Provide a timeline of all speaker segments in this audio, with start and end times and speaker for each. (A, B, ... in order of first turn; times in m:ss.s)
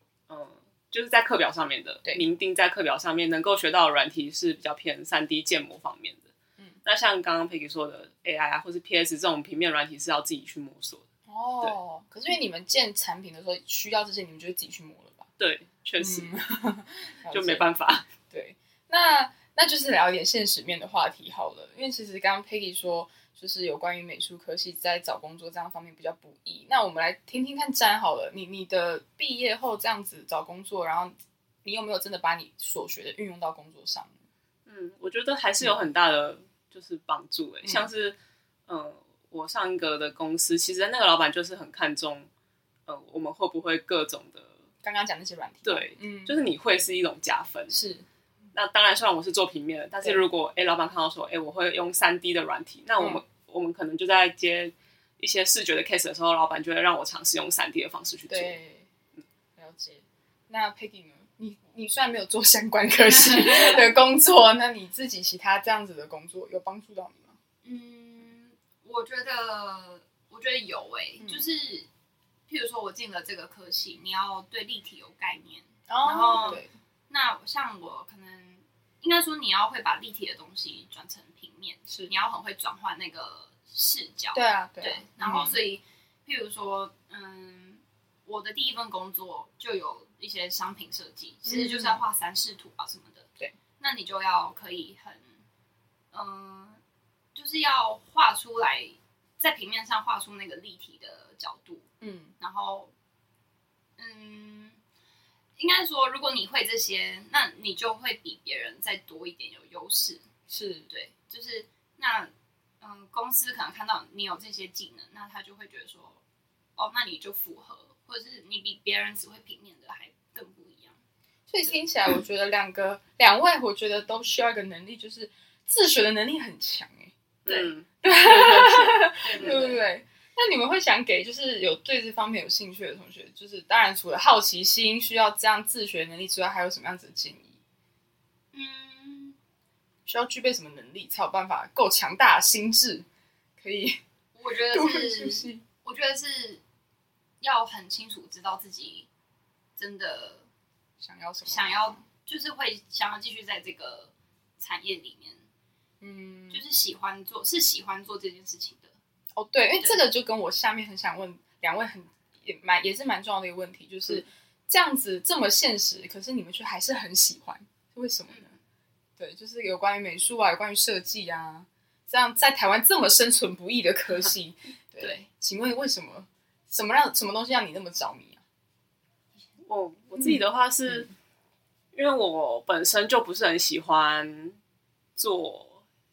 0:00.3-0:06.3 A
0:06.8-0:11.0 A
0:11.3-0:15.3 B
0:15.4-0:16.3 A
0:16.0-0:17.7 B
0:17.3-0:18.1 A
0:18.3-0:34.1 B
0:34.7-0:38.2 A
0:37.6-0:37.9 B
0:38.7-0:42.3 A
0:42.9-0:44.5 A
0:44.8-0:46.4 B
0:45.6-0:47.8 A
0:47.7-0:48.0 B
0:48.5-0:58.6 A
0:53.0-0:53.2 B
0:58.3-0:58.9 B
0:59.6-1:07.4 B
1:03.6-1:03.8 C
1:03.6-1:03.8 A
1:07.6-1:11.9 C
1:11.2-1:11.5 B
1:12.5-1:33.3 C
1:15.9-1:16.7 B
1:21.9-1:22.1 B
1:24.3-1:25.6 B
1:31.5-1:32.0 B
1:33.8-1:35.4 C
1:36.1-1:36.8 C
1:37.3-1:41.9 C
1:42.0-1:42.3 B
1:42.4-1:42.9 C
1:44.0-1:44.8 C
1:45.6-1:50.2 C
1:50.5-1:50.9 B
1:50.9-1:56.2 C
1:56.8-2:01.0 C
2:01.5-2:07.1 B
2:07.4-2:09.7 A
2:07.5-2:07.7 C
2:08.0-2:17.6 B
2:09.2-2:09.8 C
2:18.5-2:19.4 C
2:20.1-2:23.1 B
2:23.6-2:24.0 B
2:24.3-2:26.6 C
2:24.7-2:25.6 B
2:27.4-2:29.1 C
2:29.8-2:30.5 C
2:31.0-2:32.0 B
2:31.4-2:35.5 C
2:36.0-2:36.6 B
2:36.5-2:39.0 C
2:39.4-2:48.6 B
2:48.3-2:48.6 C
2:49.2-2:58.4 B
2:55.0-2:55.3 C
2:59.6-3:01.1 A
3:00.2-3:01.0 B
3:01.9-3:04.6 A
3:05.2-3:05.8 A